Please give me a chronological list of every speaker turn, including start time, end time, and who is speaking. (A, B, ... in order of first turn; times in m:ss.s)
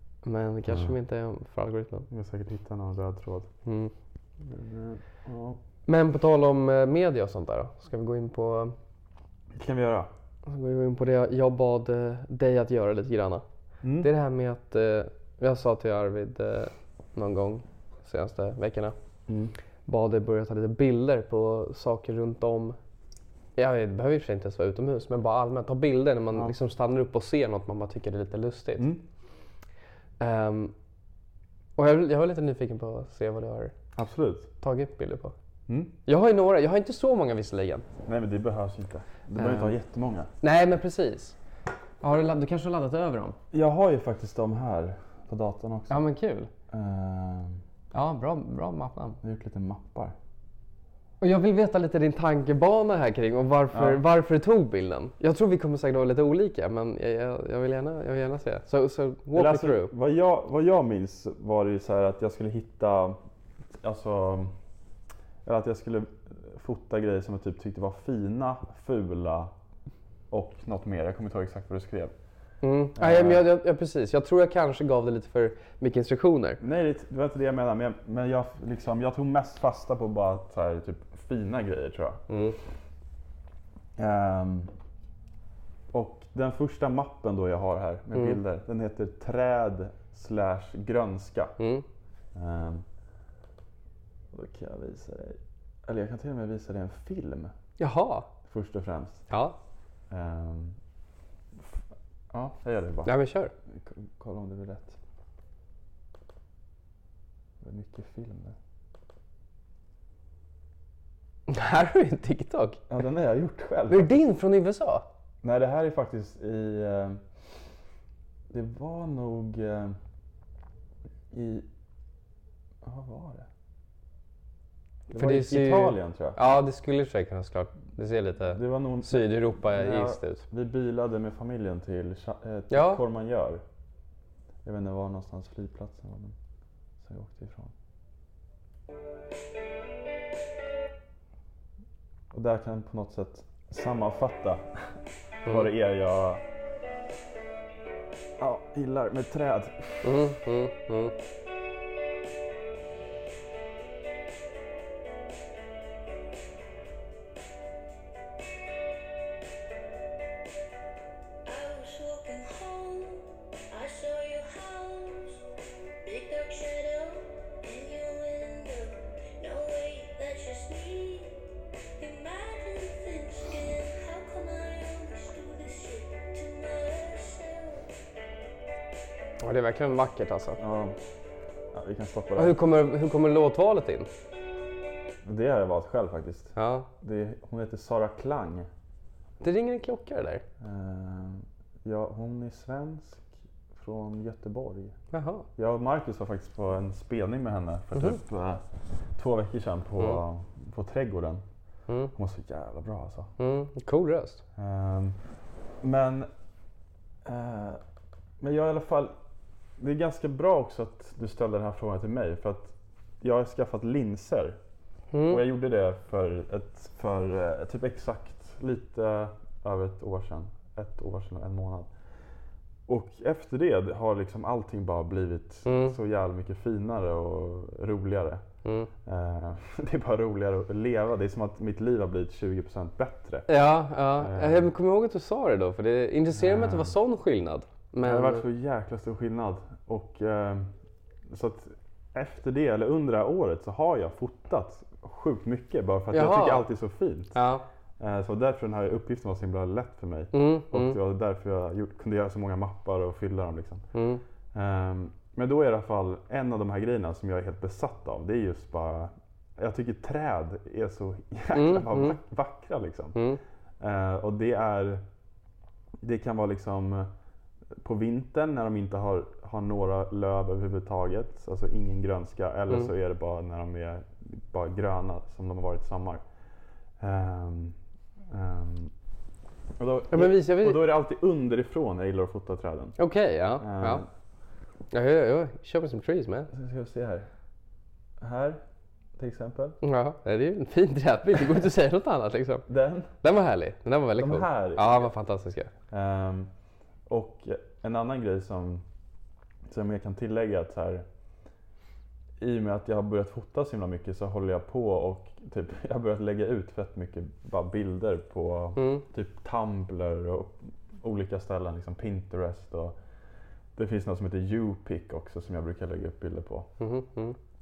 0:00.2-0:02.1 A
0:02.1-0:03.5 B
0:03.6-0:03.9 A
0:04.4-0:05.6 B
0:05.9-0:08.7 A
0:09.6-0:10.1 B
0:10.5-0:13.4 A
0:13.8-0:14.1 B
0:14.0-0:18.9 A
0:19.3-0:19.5 B
0:19.9-0:22.8 A
0:23.6-0:28.9 A
0:30.2-0:30.7 A
0:31.8-0:33.7 A
0:34.0-0:34.5 B
0:34.6-0:35.3 A
0:35.7-0:35.9 B
0:36.1-0:37.8 A
0:38.0-0:40.3 B
0:39.4-0:39.8 A
0:40.4-0:41.4 A
0:42.0-0:43.4 A
0:43.5-0:46.0 B
0:45.9-0:46.5 A
0:46.7-0:47.6 B
0:47.9-0:49.2 A
0:49.2-0:50.1 B
0:51.2-0:59.9 A
0:53.7-0:54.0 B
0:59.3-1:03.2 B
1:03.8-1:04.5 B
1:05.4-1:09.5 B
1:10.3-1:12.1 B
1:12.6-1:16.6 A
1:13.0-1:13.4 B
1:16.6-1:22.2 B
1:22.3-1:22.6 A
1:24.0-1:24.7 B
1:25.9-1:31.6 B
1:28.1-1:28.4 A
1:31.6-1:31.8 A
1:32.3-1:32.8 B
1:34.3-1:37.5 B
1:37.8-1:38.3 A
1:38.4-1:39.3 B
1:39.3-1:39.6 A
1:40.1-1:40.8 B
1:42.3-1:43.1 B
1:43.0-1:43.5 A
1:43.7-1:45.0 B
1:47.6-1:48.6 B
1:51.5-1:52.8 A
1:52.9-1:54.2 B
1:53.9-1:55.0 A
1:55.4-1:57.2 B
1:58.5-2:00.0 B
2:01.3-2:01.7 B
2:02.8-2:03.5 B
2:05.1-2:06.4 B
2:05.1-2:10.4 A
2:08.5-2:13.6 B
2:12.7-2:13.0 A
2:14.6-2:16.4 B
2:17.0-2:17.7 B
2:22.3-2:26.4 B
2:28.4-2:30.1 B
2:30.0-2:31.1 A
2:41.4-2:45.4 C
2:46.0-2:51.4 C
2:52.0-2:57.9 C
2:59.4-3:00.6 A
3:00.6-3:01.0 B
3:01.7-3:02.6 B
3:02.4-3:04.1 A
3:05.2-3:08.7 B
3:06.6-3:06.9 A
3:09.4-3:10.4 A
3:10.6-3:15.0 B
3:15.1-3:15.4 A
3:15.6-3:18.6 B
3:19.2-3:21.4 B
3:22.1-3:23.3 B
3:23.4-3:24.4 A
3:24.6-3:25.2 B
3:25.8-3:26.3 B
3:27.2-3:27.8 B
3:28.4-3:29.1 B
3:29.8-3:34.6 B
3:35.1-3:35.4 A
3:35.3-3:41.9 B
3:42.9-3:48.4 B
3:45.6-3:45.9 A
3:48.6-3:48.9 A
3:49.0-3:53.5 B
3:53.5-3:58.4 A
3:54.2-3:54.7 B
3:56.3-3:56.9 B
3:58.0-4:00.7 B
4:01.3-4:07.4 B
4:06.1-4:06.7 A
4:07.3-4:07.6 A
4:08.0-4:13.8 B
4:10.3-4:11.0 A
4:13.9-4:14.2 A
4:14.5-4:23.2 B
4:21.5-4:22.2 A
4:23.8-4:25.0 B
4:26.0-4:27.1 B
4:27.8-4:36.2 B
4:37.0-4:37.8 B
4:38.3-4:38.9 B
4:39.8-4:43.0 B
4:40.1-4:40.9 A
4:43.0-4:44.0 A
4:43.6-4:44.1 B
4:44.9-4:46.5 A
4:46.5-4:47.3 B
4:48.2-4:48.6 B
4:49.2-4:49.8 B
4:49.8-4:52.6 A
4:52.7-4:53.1 B
4:53.2-4:55.7 A
4:54.2-4:55.1 B
4:55.9-4:56.5 B
4:57.1-4:58.8 B
4:59.7-5:01.0 B
5:02.4-5:13.0 B
5:08.8-5:09.0 A
5:13.8-5:16.7 B
5:16.8-5:17.4 A